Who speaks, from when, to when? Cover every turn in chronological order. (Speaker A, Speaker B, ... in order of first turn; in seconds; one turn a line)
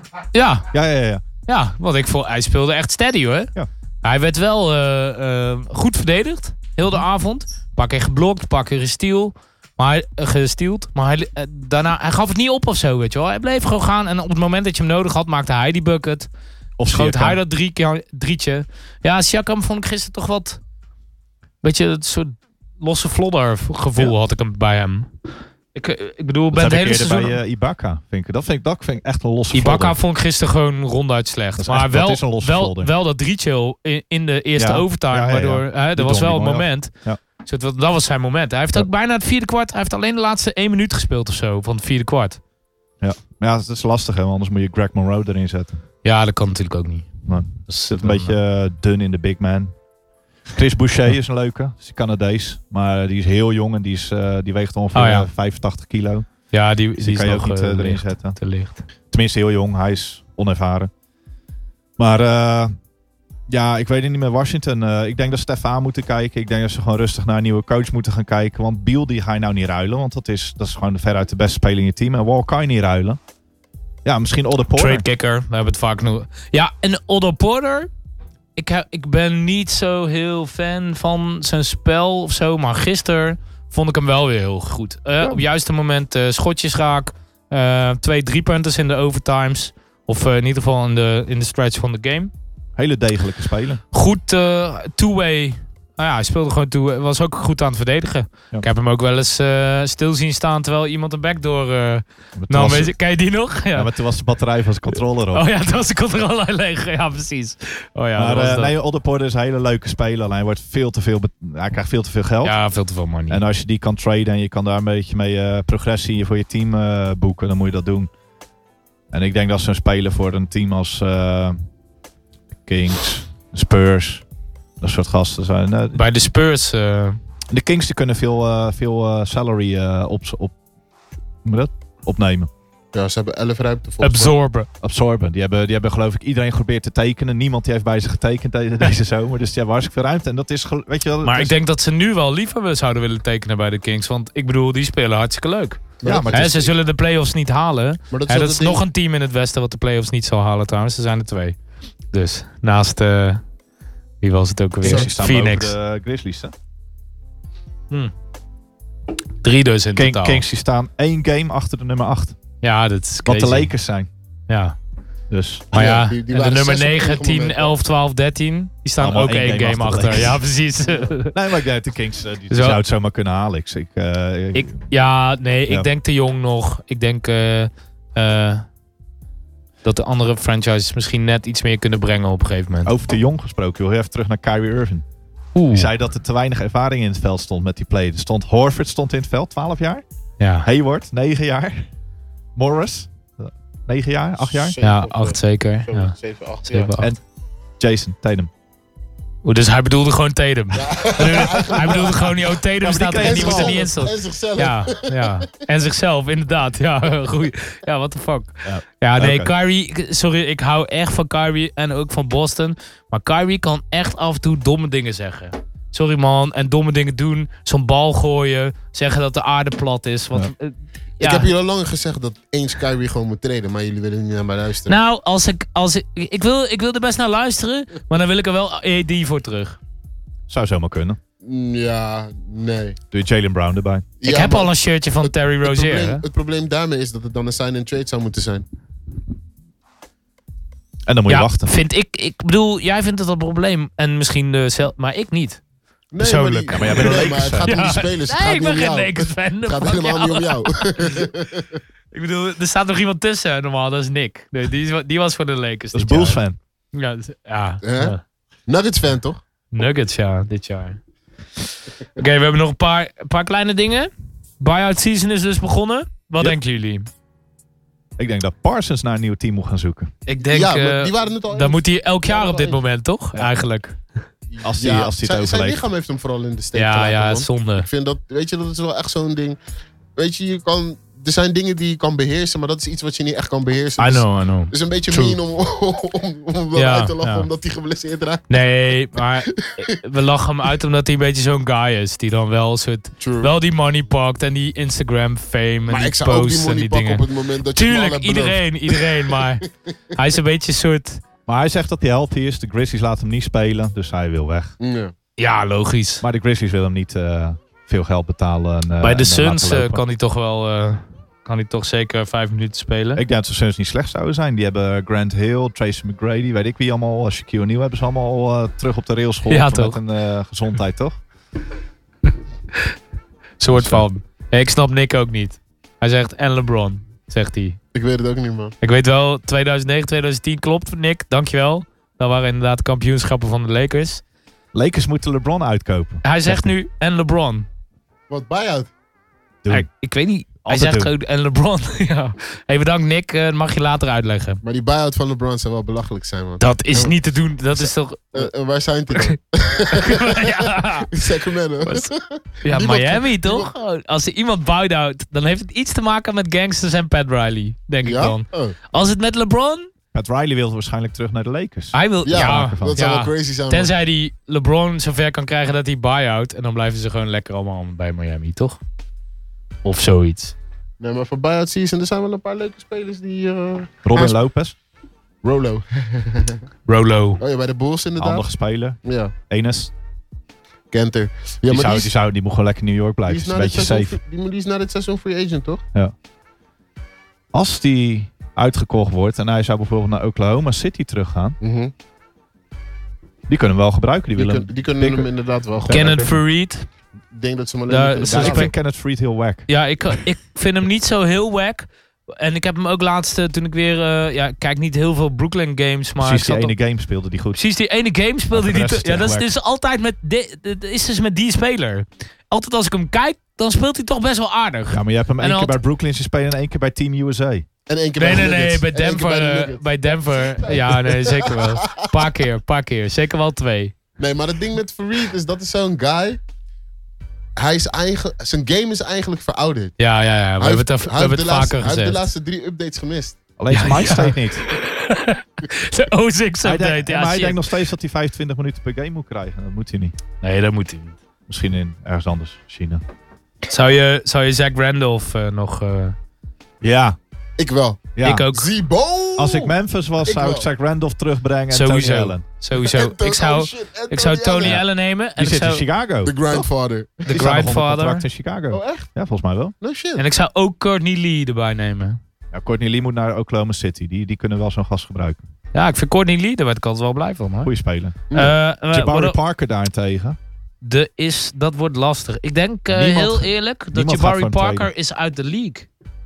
Speaker A: 0.3-0.7
Speaker B: 0.7-1.2
Speaker A: 1.5-3.5
Speaker A: 4.0-16.3
Speaker B: 16.8-17.4
Speaker A: 16.9-20.6
Speaker A: 21.6-25.1
Speaker A: 25.7-27.4
Speaker B: 26.5-30.0
Speaker A: 29.5-36.9
Speaker B: 31.6-32.9
Speaker B: 34.6-37.2
Speaker A: 37.4-42.4
Speaker B: 43.0-45.8
Speaker A: 46.0-48.4
Speaker B: 47.3-49.8
Speaker B: 50.5-56.3
Speaker A: 54.9-55.3
Speaker A: 56.5-58.8
Speaker B: 57.0-58.4
Speaker B: 59.1-60.9
Speaker B: 62.0-62.7
Speaker B: 63.5-73.2
Speaker B: 74.0-75.0
Speaker A: 74.8-77.9
Speaker A: 78.6-92.3
Speaker B: 92.8-93.8
Speaker A: 93.9-103.9
Speaker B: 102.4-103.0
Speaker B: 103.7-105.5
Speaker A: 104.9-108.7
Speaker B: 108.2-112.6
Speaker A: 112.4-113.4
Speaker B: 113.3-118.1
Speaker B: 119.1-121.6
Speaker B: 122.7-124.2
Speaker B: 124.8-126.0
Speaker A: 125.9-127.2
Speaker B: 127.5-130.5
Speaker B: 131.4-132.5
Speaker C: 132.9-134.3
Speaker A: 134.0-134.7
Speaker B: 134.8-141.6
Speaker A: 141.2-151.6
Speaker C: 146.0-146.4
Speaker B: 146.0-146.7
Speaker C: 148.1-148.8
Speaker A: 152.1-153.4
Speaker A: 154.2-155.7
Speaker B: 154.8-156.5
Speaker C: 154.8-155.1
Speaker A: 159.4-160.4
Speaker B: 159.9-162.4
Speaker A: 162.6-163.7
Speaker B: 163.2-164.1
Speaker A: 164.5-164.8
Speaker B: 165.3-165.7
Speaker C: 165.7-167.8
Speaker A: 165.7-171.3
Speaker B: 169.0-170.4
Speaker B: 171.3-174.8
Speaker A: 172.5-172.8
Speaker A: 174.5-178.7
Speaker A: 179.8-182.9
Speaker B: 182.8-185.1
Speaker A: 185.6-185.9
Speaker B: 185.7-190.0
Speaker A: 190.4-190.7
Speaker B: 190.6-191.9
Speaker B: 192.6-194.8
Speaker C: 194.5-196.9
Speaker A: 194.8-196.2
Speaker A: 196.7-197.1
Speaker B: 197.8-198.5
Speaker A: 199.4-221.5
Speaker C: 200.8-202.3
Speaker B: 202.8-203.8
Speaker C: 203.2-205.3
Speaker B: 208.6-209.5
Speaker C: 221.2-225.0
Speaker A: 224.9-229.8
Speaker B: 230.5-231.2
Speaker C: 231.4-233.0
Speaker B: 233.1-234.1
Speaker C: 234.2-238.7
Speaker A: 234.2-236.2
Speaker B: 241.1-241.7
Speaker A: 241.3-245.6
Speaker C: 246.1-251.8
Speaker A: 246.2-251.0
Speaker B: 246.7-248.0
Speaker A: 252.1-256.4
Speaker B: 255.9-256.6
Speaker A: 256.9-258.2
Speaker C: 257.8-258.2
Speaker C: 258.7-259.4
Speaker A: 259.7-261.0
Speaker A: 262.1-267.1
Speaker B: 268.2-270.1
Speaker A: 270.3-274.0
Speaker C: 270.4-272.8
Speaker C: 274.5-279.6
Speaker B: 274.6-275.8
Speaker A: 276.8-277.9
Speaker C: 280.2-288.5
Speaker A: 284.0-285.4
Speaker A: 286.8-287.5
Speaker A: 288.5-297.2
Speaker C: 293.2-293.5
Speaker C: 295.9-299.5
Speaker A: 297.7-299.6
Speaker A: 300.1-301.2
Speaker B: 301.5-304.7
Speaker C: 304.8-305.1
Speaker A: 305.4-306.2
Speaker B: 306.2-310.0
Speaker A: 309.0-313.2
Speaker B: 313.2-321.2
Speaker A: 319.5-320.0
Speaker A: 323.6-327.8
Speaker B: 323.7-324.0
Speaker C: 327.9-328.8
Speaker A: 328.8-334.2
Speaker B: 334.7-336.7
Speaker A: 336.2-337.7
Speaker C: 338.3-338.9
Speaker B: 339.6-339.9
Speaker A: 339.7-344.6
Speaker B: 340.6-341.1
Speaker C: 344.6-347.1
Speaker A: 346.6-348.5
Speaker C: 348.3-353.7
Speaker A: 349.9-351.1
Speaker A: 352.6-359.9
Speaker C: 358.0-358.8
Speaker B: 360.1-363.0
Speaker A: 361.9-368.8
Speaker C: 362.2-363.9
Speaker A: 369.8-370.6
Speaker C: 371.0-374.4
Speaker B: 374.1-374.8
Speaker C: 375.4-376.6
Speaker A: 376.9-377.4
Speaker C: 377.4-378.5
Speaker B: 378.2-379.9
Speaker C: 379.0-379.3
Speaker C: 380.9-382.1
Speaker B: 381.7-384.2
Speaker C: 383.3-385.8
Speaker B: 387.5-391.6
Speaker C: 391.6-391.9
Speaker B: 393.5-395.3
Speaker C: 394.4-396.2
Speaker B: 395.9-396.4
Speaker A: 395.9-396.9
Speaker C: 397.3-398.7
Speaker A: 397.9-398.7
Speaker B: 398.3-399.7
Speaker A: 399.7-406.8
Speaker B: 406.2-407.6
Speaker A: 407.6-415.8
Speaker B: 408.5-409.5
Speaker B: 414.9-417.7
Speaker C: 417.9-422.1
Speaker A: 418.2-423.9
Speaker C: 424.2-426.4
Speaker C: 427.6-430.0
Speaker A: 430.0-432.3
Speaker C: 430.6-433.4
Speaker B: 433.6-434.7
Speaker A: 433.7-437.6
Speaker B: 436.6-440.2
Speaker A: 440.4-441.2
Speaker B: 441.5-443.0
Speaker A: 443.7-446.2
Speaker B: 446.8-447.2
Speaker C: 447.6-449.7
Speaker B: 448.2-448.5
Speaker A: 448.2-448.7
Speaker B: 449.4-452.4
Speaker C: 450.2-450.7
Speaker A: 451.7-455.9
Speaker C: 452.8-454.8
Speaker B: 455.4-456.7
Speaker C: 456.2-457.4
Speaker A: 457.3-458.2
Speaker B: 457.3-459.8
Speaker C: 458.7-459.1
Speaker C: 459.8-460.2
Speaker A: 460.2-462.2
Speaker B: 462.5-465.4
Speaker A: 465.7-467.7
Speaker B: 467.6-468.3
Speaker A: 468.3-469.4
Speaker B: 468.8-470.4
Speaker A: 470.8-475.9
Speaker B: 472.9-474.9